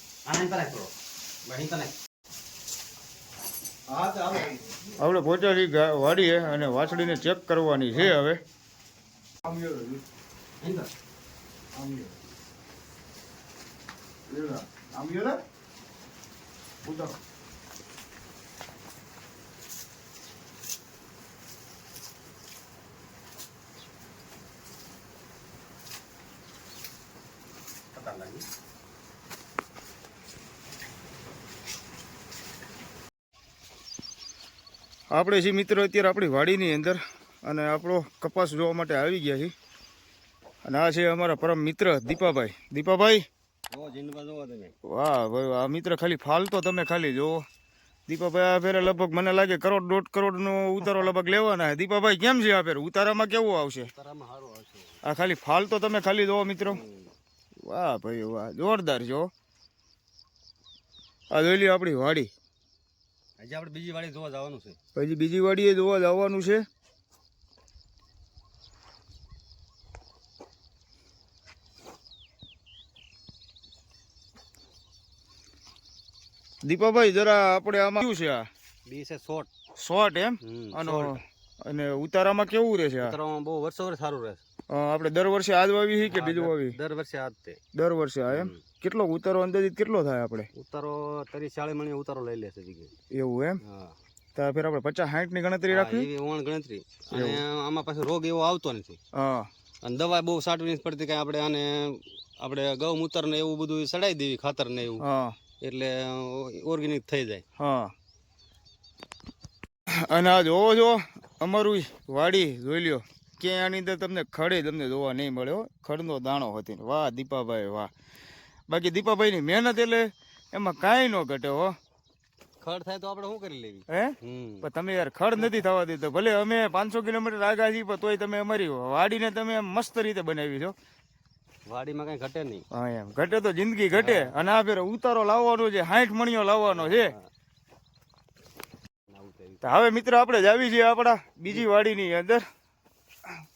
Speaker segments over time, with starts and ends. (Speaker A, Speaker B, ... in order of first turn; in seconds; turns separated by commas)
Speaker A: 0.2-0.9, Speaker A: 1.4-1.9, Speaker A: 3.9-4.5, Speaker B: 5.0-8.4, Speaker B: 9.4-10.0, Speaker A: 10.6-10.9, Speaker B: 11.8-12.1, Speaker B: 14.3-15.4, Speaker B: 16.8-17.2, Speaker A: 27.9-28.4, Speaker B: 35.1-39.5, Speaker B: 40.6-43.2, Speaker A: 43.7-44.8, Speaker B: 44.9-47.4, Speaker B: 48.1-53.9, Speaker A: 53.8-55.0, Speaker B: 55.0-56.8, Speaker A: 56.7-57.1, Speaker B: 57.6-59.3, Speaker B: 61.3-62.3, Speaker A: 63.4-64.8, Speaker B: 64.9-66.6, Speaker B: 76.6-78.5, Speaker A: 78.8-79.5, Speaker B: 79.8-83.1, Speaker A: 80.4-81.2, Speaker A: 83.0-84.4, Speaker B: 84.7-86.8, Speaker A: 86.0-87.6, Speaker B: 87.7-90.5, Speaker A: 88.3-88.6, Speaker A: 90.5-92.9, Speaker B: 93.1-93.6, Speaker A: 93.7-93.9, Speaker B: 94.3-96.1, Speaker A: 95.7-99.0, Speaker B: 97.1-97.4, Speaker B: 99.1-99.5, Speaker A: 99.8-105.0, Speaker B: 105.0-105.3, Speaker A: 105.6-107.4, Speaker B: 107.6-107.9, Speaker B: 110.0-117.9, Speaker B: 118.7-121.7, Speaker A: 122.6-124.7, Speaker B: 123.9-130.7, Speaker A: 131.7-132.6, Speaker B: 132.7-137.1, Speaker A: 133.9-134.4, Speaker A: 136.7-137.2, Speaker A: 139.1-139.8, Speaker B: 139.6-142.4